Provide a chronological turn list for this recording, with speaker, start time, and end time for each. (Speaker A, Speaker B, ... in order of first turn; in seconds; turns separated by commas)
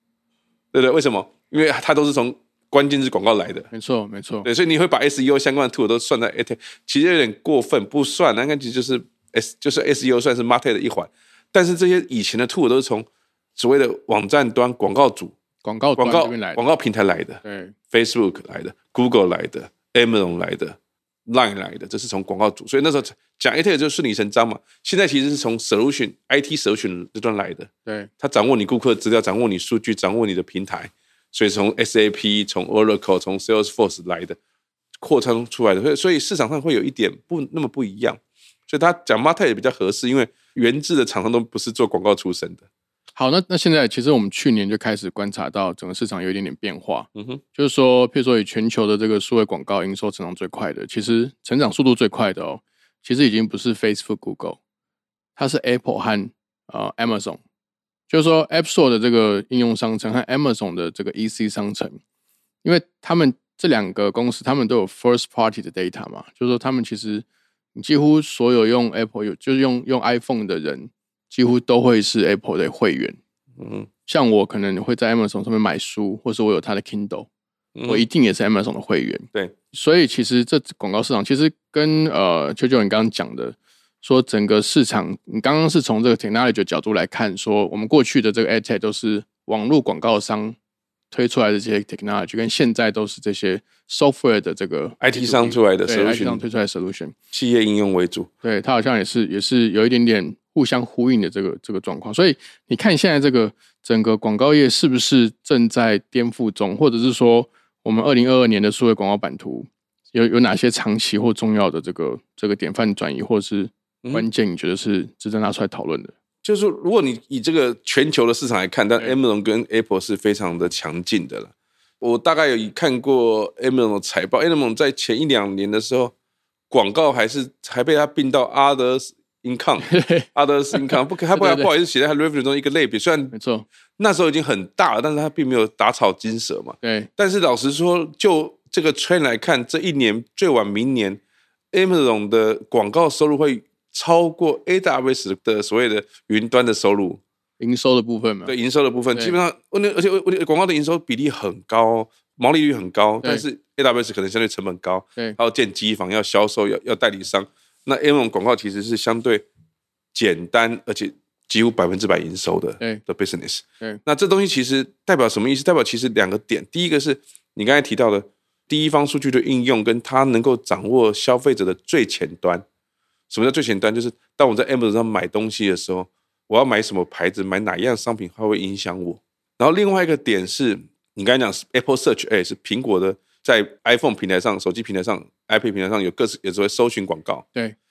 Speaker A: 0.7-3.7, Speaker B: 3.7-4.5, Speaker A: 4.4-15.3, Speaker B: 15.6-16.6, Speaker A: 15.9-34.4, Speaker B: 17.4-17.7, Speaker A: 35.0-42.6, Speaker B: 43.1-54.6, Speaker A: 47.1-47.4, Speaker B: 55.4-57.4, Speaker B: 58.1-62.0, Speaker B: 62.6-73.2, Speaker A: 73.6-73.9, Speaker B: 74.0-77.3, Speaker A: 77.7-78.0, Speaker B: 77.9-90.5, Speaker B: 91.1-97.1, Speaker A: 95.0-96.4, Speaker A: 97.3-98.3, Speaker B: 98.4-116.1, Speaker A: 116.4-126.1, Speaker A: 126.7-133.3, Speaker B: 129.8-131.7, Speaker B: 133.3-133.7, Speaker A: 134.0-141.2, Speaker B: 136.8-137.1, Speaker A: 141.7-147.2, Speaker B: 147.6-148.5, Speaker A: 148.4-159.4, Speaker A: 160.1-172.6, Speaker A: 173.3-187.4